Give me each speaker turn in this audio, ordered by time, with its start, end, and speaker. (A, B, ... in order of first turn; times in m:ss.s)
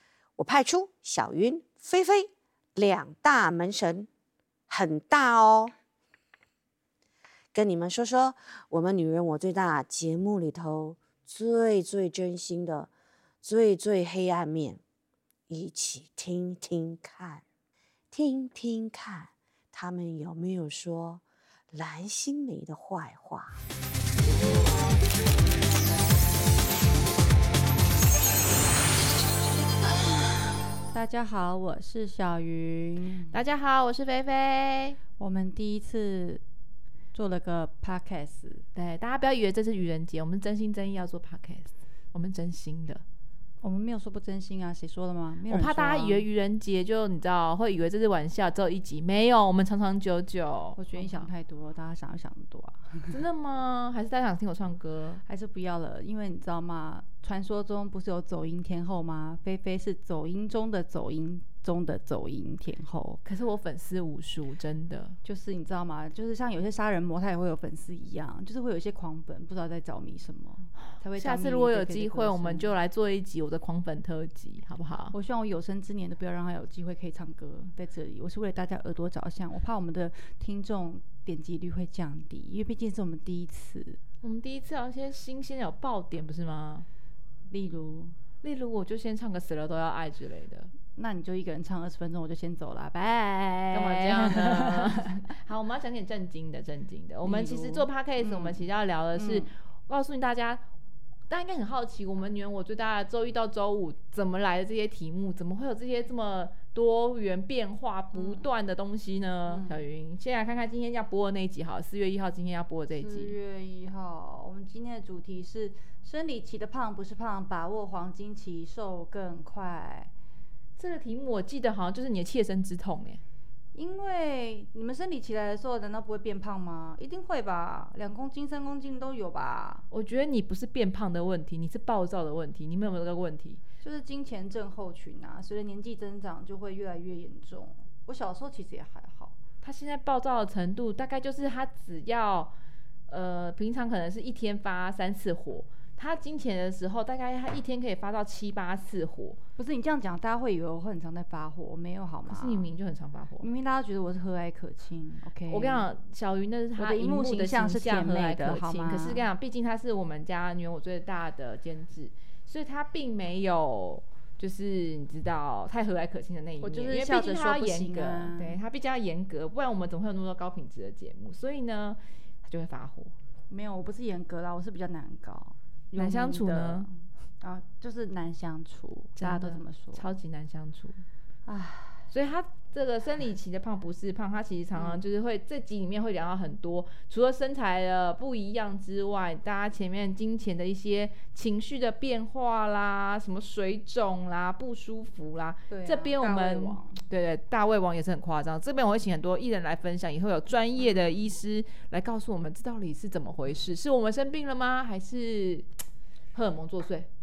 0:00.4-0:04.1 A
0:04.7-0:05.7 A
0:07.5-0:12.9 A
0:13.4-0:14.8 A
0:15.5-0:17.4 A
0:18.1-0:23.6 A
0:30.9-0:33.3 B
0:33.3-0:35.0 C
0:35.2-0:36.4 B
0:37.1-0:38.6 B
0:38.7-0:43.0 C
0:43.6-0:46.2 B
0:45.5-0:51.3 C
0:50.8-0:53.2 B
0:53.1-0:55.2 C
0:55.2-1:03.2 B
1:03.2-1:05.2 C
1:05.2-1:12.7 B
1:11.1-1:15.1 C
1:15.1-1:24.0 B
1:24.2-1:26.8 C
1:27.5-1:28.1 B
1:28.4-1:30.7 C
1:30.9-1:35.0 B
1:33.7-1:40.6 C
1:37.2-1:38.6 B
1:39.1-1:39.5 B
1:41.3-1:53.3 C
1:48.1-1:48.4 B
1:49.5-1:49.8 B
1:53.0-2:00.1 B
2:00.8-2:03.2 C
2:03.7-2:09.8 B
2:09.9-2:13.6 C
2:13.8-2:19.3 B
2:19.6-2:22.5 C
2:23.1-2:29.4 C
2:29.6-2:32.7 B
2:32.3-2:33.5 C
2:33.4-2:35.9 B
2:35.5-2:53.1 C
2:36.8-2:39.3 B
2:46.6-2:48.6 B
2:53.5-3:00.1 B
2:56.0-2:56.9 C
2:59.2-3:01.0 C
3:01.4-3:02.1 B
3:02.1-3:25.7 C
3:04.8-3:05.0 B
3:15.7-3:17.0 B
3:26.3-3:27.1 C